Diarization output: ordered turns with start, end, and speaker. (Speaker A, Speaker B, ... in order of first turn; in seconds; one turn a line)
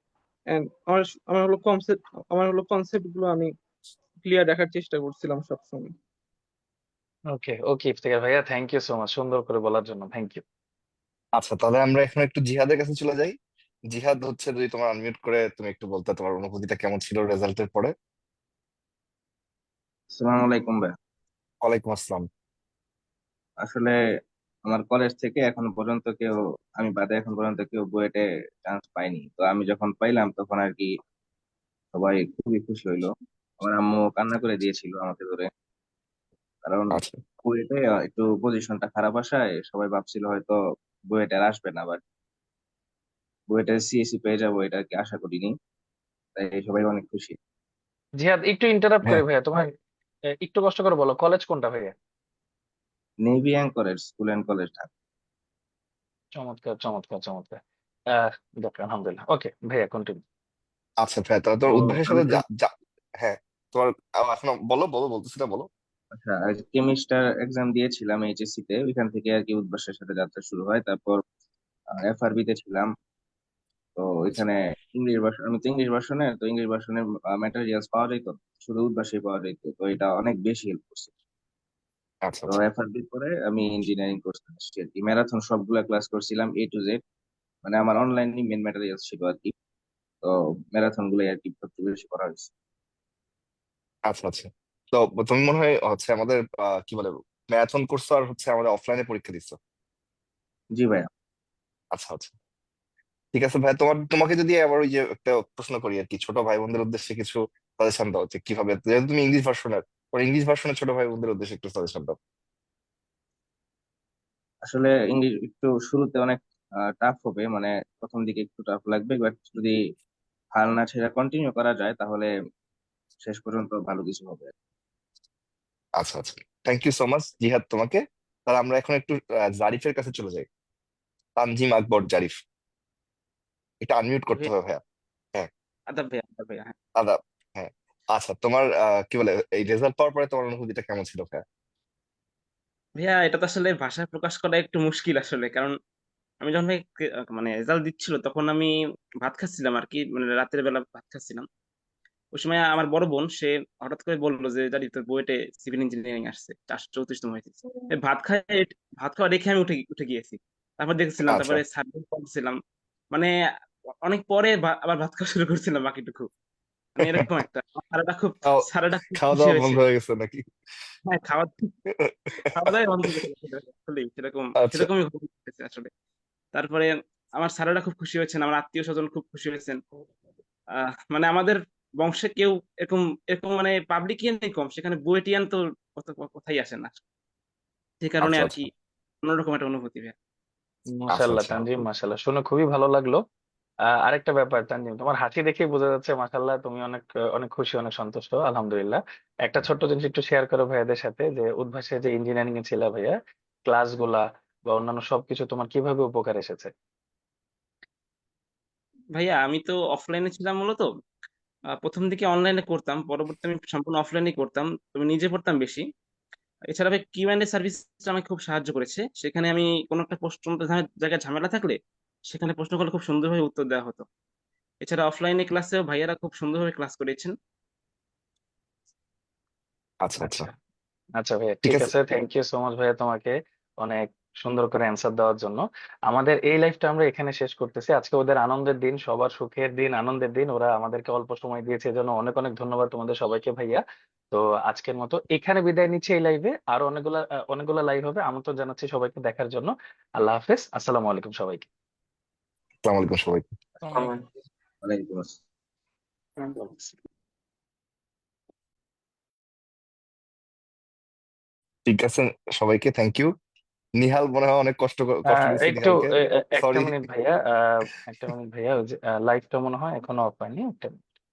Speaker A: 0.5-3.5
Speaker A: 4.2-5.9
Speaker B: 7.3-10.4
Speaker C: 11.4-13.3
Speaker C: 13.9-17.9
Speaker D: 20.1-20.9
Speaker C: 21.6-22.2
Speaker D: 23.6-23.9
Speaker D: 24.6-30.9
Speaker D: 31.9-33.1
Speaker D: 33.6-35.5
Speaker D: 36.6-40.6
Speaker C: 36.9-37.2
Speaker D: 41.1-42.0
Speaker D: 43.5-45.5
Speaker D: 46.4-47.3
Speaker B: 48.2-49.7
Speaker B: 50.4-51.9
Speaker D: 53.2-54.9
Speaker B: 56.4-57.6
Speaker B: 58.1-60.2
Speaker C: 61.0-65.7
Speaker D: 61.7-62.4
Speaker D: 66.1-71.2
Speaker D: 71.9-72.9
Speaker D: 74.0-81.1
Speaker C: 82.2-82.6
Speaker D: 82.5-87.0
Speaker D: 87.6-89.5
Speaker D: 90.2-92.5
Speaker C: 94.1-99.6
Speaker D: 100.8-101.1
Speaker C: 101.9-102.3
Speaker C: 103.3-112.2
Speaker D: 114.7-119.7
Speaker D: 120.5-122.3
Speaker D: 123.2-124.5
Speaker C: 126.0-130.5
Speaker C: 131.4-132.4
Speaker C: 133.8-134.8
Speaker E: 135.9-136.7
Speaker C: 137.0-141.4
Speaker E: 142.9-145.7
Speaker E: 146.4-151.4
Speaker E: 152.3-162.6
Speaker C: 161.2-161.6
Speaker E: 164.0-166.3
Speaker E: 167.0-169.8
Speaker C: 167.0-167.3
Speaker C: 168.4-170.5
Speaker E: 171.1-171.7
Speaker C: 172.4-173.2
Speaker E: 172.5-175.9
Speaker C: 174.6-174.9
Speaker E: 176.5-179.8
Speaker E: 180.8-187.0
Speaker E: 188.0-188.7
Speaker C: 188.2-188.6
Speaker E: 189.2-190.1
Speaker B: 190.9-193.2
Speaker C: 191.1-191.7
Speaker B: 194.0-206.7
Speaker E: 209.1-210.9
Speaker E: 211.8-215.8
Speaker E: 216.7-221.8
Speaker E: 222.3-224.1
Speaker E: 224.8-227.3
Speaker C: 230.0-230.5
Speaker B: 230.2-230.5
Speaker B: 231.2-251.7
Speaker C: 231.6-231.9
Speaker C: 252.8-253.5
Speaker D: 254.8-255.4
Speaker C: 261.9-263.3
Speaker C: 264.0-267.0
Speaker B: 265.3-271.0